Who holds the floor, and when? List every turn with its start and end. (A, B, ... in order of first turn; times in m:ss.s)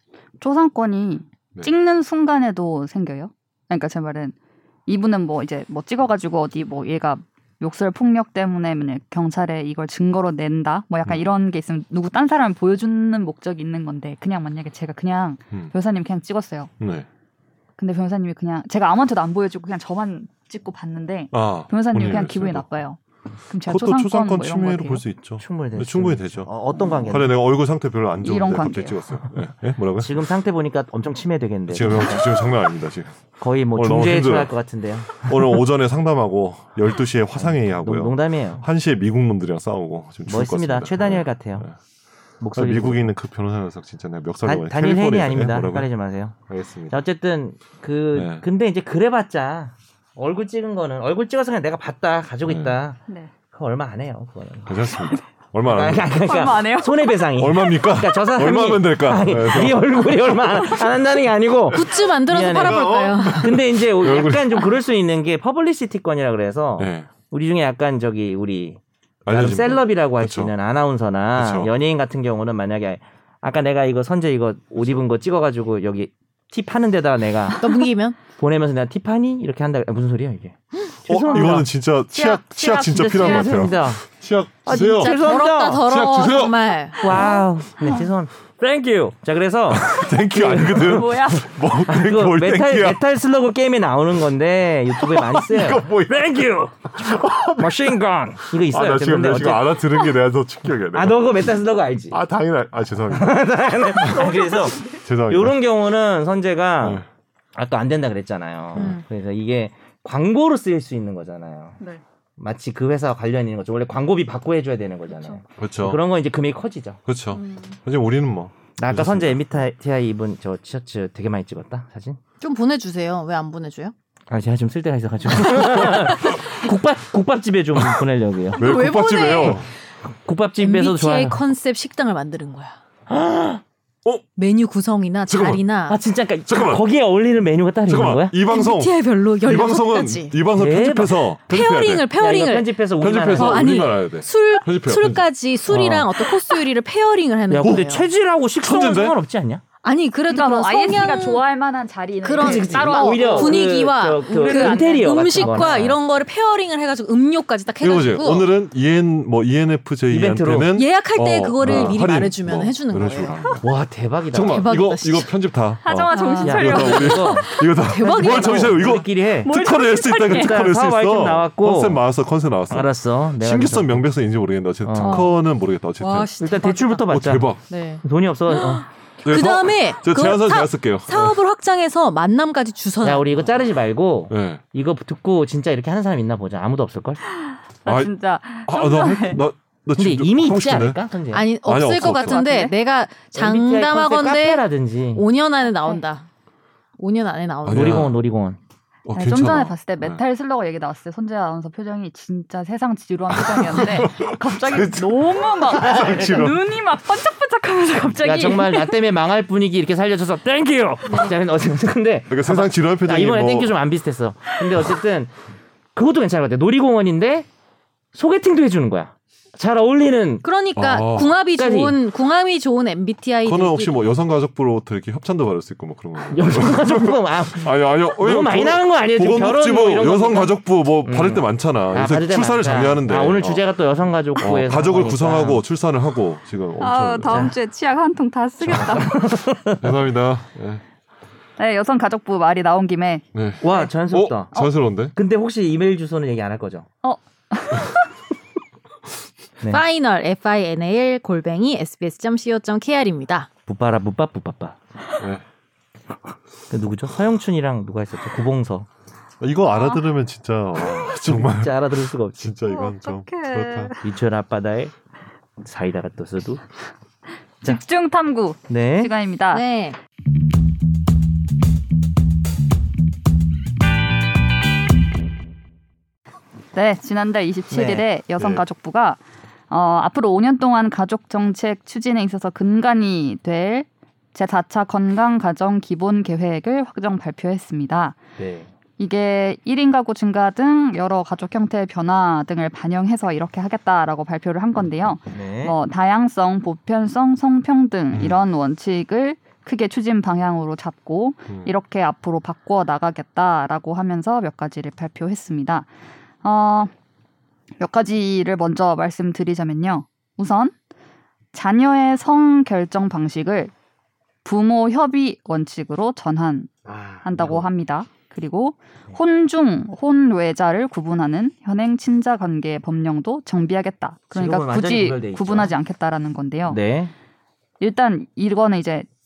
0:00.4-0:04.4 A
0:04.9-0:16.7 A
0:16.8-0:17.1 B
0:17.8-0:23.0 A
0:21.3-0:22.7 B
0:23.5-0:25.0 A
0:23.7-0:26.5 B
0:25.4-0:27.4 C
0:26.8-0:27.1 A
0:27.1-0:30.2 B
0:28.2-0:29.0 A
0:30.0-0:32.5 C
0:31.7-0:34.6 B
0:33.4-0:35.6 C
0:35.1-0:41.8 B
0:37.4-0:38.7 C
0:40.3-0:41.7 C
0:42.4-0:43.0 C
0:42.6-0:45.9 B
0:44.4-0:46.4 C
0:46.5-0:47.0 B
0:46.9-0:53.0 C
0:48.1-0:48.4 B
0:52.5-0:52.8 B
0:53.5-1:21.7 C
0:54.7-0:56.2 B
0:56.2-0:57.2 A
0:57.4-1:00.8 B
1:01.7-1:03.5 D
1:02.4-1:04.7 B
1:06.8-1:07.1 B
1:09.2-1:10.5 B
1:11.4-1:11.7 B
1:17.6-1:18.2 D
1:21.1-1:25.2 B
1:21.3-1:21.5 A
1:22.1-1:23.7 A
1:22.9-1:24.0 C
1:24.7-1:25.8 C
1:24.7-1:27.0 D
1:25.8-1:27.2 B
1:27.0-1:39.8 C
1:27.1-1:28.1 A
1:29.7-1:33.0 B
1:30.8-1:31.5 A
1:35.0-1:38.0 B
1:38.5-1:41.6 B
1:40.9-1:42.2 C
1:42.1-1:44.3 B
1:43.1-1:47.0 C
1:44.1-1:45.0 A
1:45.0-1:45.6 B
1:47.6-1:51.8 C
1:48.8-1:49.0 D
1:52.4-1:57.0 C
1:55.1-1:55.4 A
1:55.6-1:56.0 B
1:57.1-1:59.4 B
1:57.3-1:57.8 A
1:58.8-2:02.2 C
2:02.4-2:03.9 D
2:04.3-2:08.6 C
2:08.5-2:09.7 B
2:08.6-2:09.6 D
2:09.4-2:11.4 C
2:10.6-2:12.8 D
2:13.1-2:13.6 C
2:14.4-2:16.0 D
2:15.3-2:15.6 B
2:15.9-2:18.4 C
2:16.5-2:16.8 B
2:17.9-2:22.1 B
2:18.5-2:20.4 D
2:20.6-2:21.2 C
2:21.5-2:22.7 D
2:22.2-2:23.9 C
2:23.0-2:26.0 B
2:23.4-2:28.1 D
2:25.7-2:26.1 C
2:27.5-2:29.6 C
2:27.6-2:27.9 B
2:28.6-2:29.2 B
2:29.8-2:31.4 D
2:30.3-2:33.7 A
2:32.2-2:38.5 D
2:32.4-2:36.0 C
2:34.3-2:35.8 A
2:37.8-2:43.7 B
2:40.1-2:40.7 C
2:40.8-2:43.4 D
2:41.6-2:42.0 C
2:43.6-2:44.7 C
2:44.3-2:56.3 B
2:44.5-2:45.3 D
2:45.8-2:47.5 A
2:46.1-2:48.8 D
2:46.4-2:47.5 C
2:48.0-2:48.5 A
2:48.1-2:49.6 C
2:49.4-2:50.6 A
2:50.3-2:52.0 C
2:52.7-2:54.1 C
2:54.8-2:55.3 C
2:55.0-2:55.4 D
2:56.0-2:57.1 D
2:56.4-2:58.9 C
2:57.1-2:57.6 B
2:57.7-3:03.4 D
2:59.2-3:01.4 B
3:03.0-3:07.2 C
3:04.3-3:04.6 B
3:07.5-3:09.4 A
3:07.9-3:08.1 B
3:08.7-3:11.0 B
3:10.0-3:11.5 C
3:11.3-3:16.3 D
3:11.6-3:12.4 B
3:12.0-3:12.7 A
3:13.3-3:15.2 C
3:15.8-3:16.0 A
3:17.0-3:18.1 D
3:17.7-3:18.2 B
3:17.7-3:18.6 C
3:19.1-3:20.2 B
3:19.2-3:29.0 A
3:23.3-3:26.7 B
3:25.8-3:26.4 C
3:28.2-3:35.3 C
3:32.3-3:33.8 B
3:36.0-3:37.5 C
3:38.1-3:40.4 C
3:40.4-3:43.9 D
3:40.8-3:41.4 B
3:41.6-3:42.0 C
3:43.4-3:53.6 B
3:46.3-3:55.6 C
3:54.4-3:57.5 B
3:56.8-3:59.3 A
3:57.2-3:57.5 C
3:58.6-3:59.9 C
3:58.7-3:58.9 B
3:59.8-4:00.8 B
4:01.6-4:03.2 A
4:03.3-4:05.2 B
4:03.6-4:04.6 C
4:05.1-4:06.9 C
4:07.0-4:08.0 A
4:09.7-4:13.5 D
4:13.7-4:14.8 C
4:16.7-4:18.9 C
4:19.4-4:23.9 B
4:19.8-4:20.0 A
4:20.8-4:22.5 C
4:22.7-4:24.1 A
4:24.0-4:24.9 C
4:25.6-4:26.6 C
4:27.6-4:29.6 A
4:28.7-4:29.1 C
4:29.5-4:30.0 D
4:36.7-4:48.2 A
4:37.7-4:38.1 C
4:38.4-4:38.6 B
4:48.4-4:48.7 C
4:49.0-5:05.9 A
4:55.3-4:55.8 C
4:58.1-4:58.4 B
5:06.4-5:06.9 A
5:07.8-5:10.8 A
5:11.5-5:13.7 A
5:14.4-5:16.7 A
5:16.8-5:17.7 C
5:17.2-5:26.8 A
5:24.3-5:25.7 C
5:26.7-5:27.1 C
5:27.8-5:29.1 A